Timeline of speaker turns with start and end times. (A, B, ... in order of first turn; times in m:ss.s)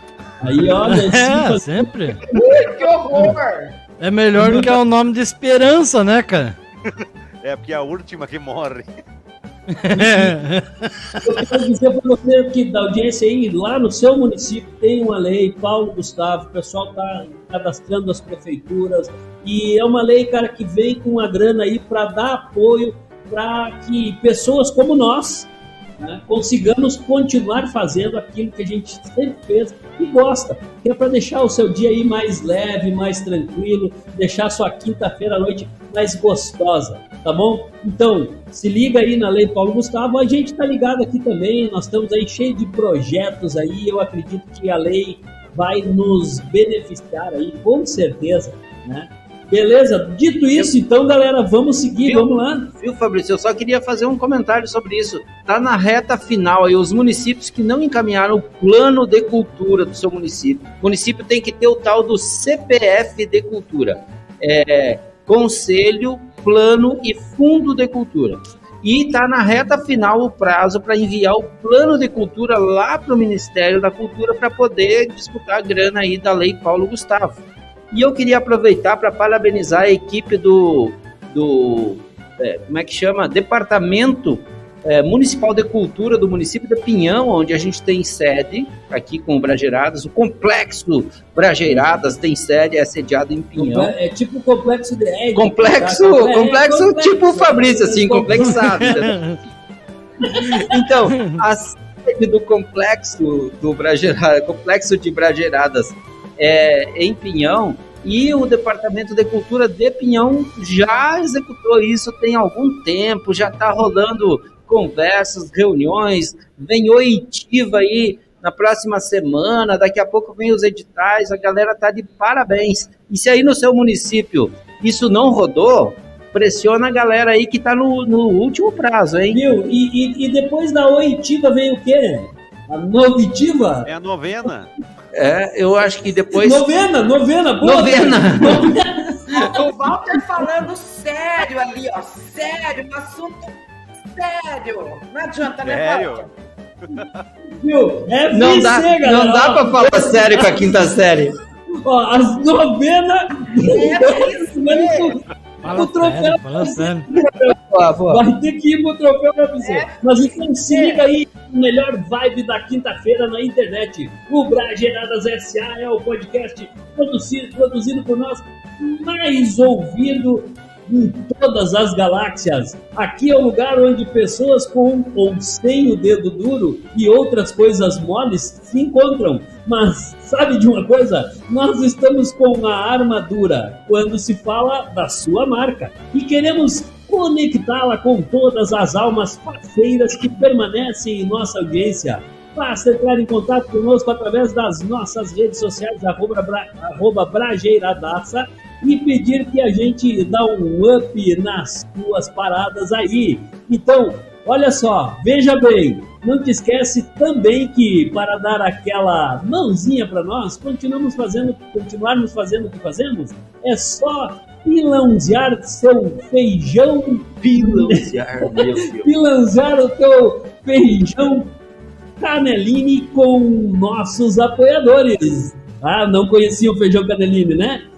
0:00.4-0:02.2 A
0:00.8-0:02.2 B
0:02.3-0:03.8 C
0:04.0-0:06.6 B
0:04.4-0:04.7 A
0:06.8-0:08.9 D
0:09.7-0:11.2 B
0:09.9-0:10.3 A
0:11.2-0:52.7 A
0:52.0-1:33.9 E
1:33.6-1:39.1 A
1:35.3-1:39.1 E
1:38.7-1:39.4 B
1:40.3-1:40.7 A
1:40.5-2:09.4 E
1:41.1-1:41.4 B
2:09.3-2:13.9 A
2:13.8-2:14.7 D
2:15.1-2:16.7 E
2:16.4-2:19.5 A
2:17.6-2:18.7 E
2:19.3-2:19.6 E
2:19.4-2:23.5 C
2:24.1-2:26.3 C
2:25.6-2:26.2 D
2:26.8-2:27.2 D
2:27.6-2:30.7 A
2:28.3-2:31.3 E
2:31.7-2:37.6 A
2:33.6-2:35.2 C
2:35.6-2:37.0 B
2:37.1-2:38.2 E
2:38.1-3:41.5 A
2:39.6-2:40.0 C
2:40.7-2:41.0 C
3:37.4-3:39.1 E
3:42.2-3:47.8 A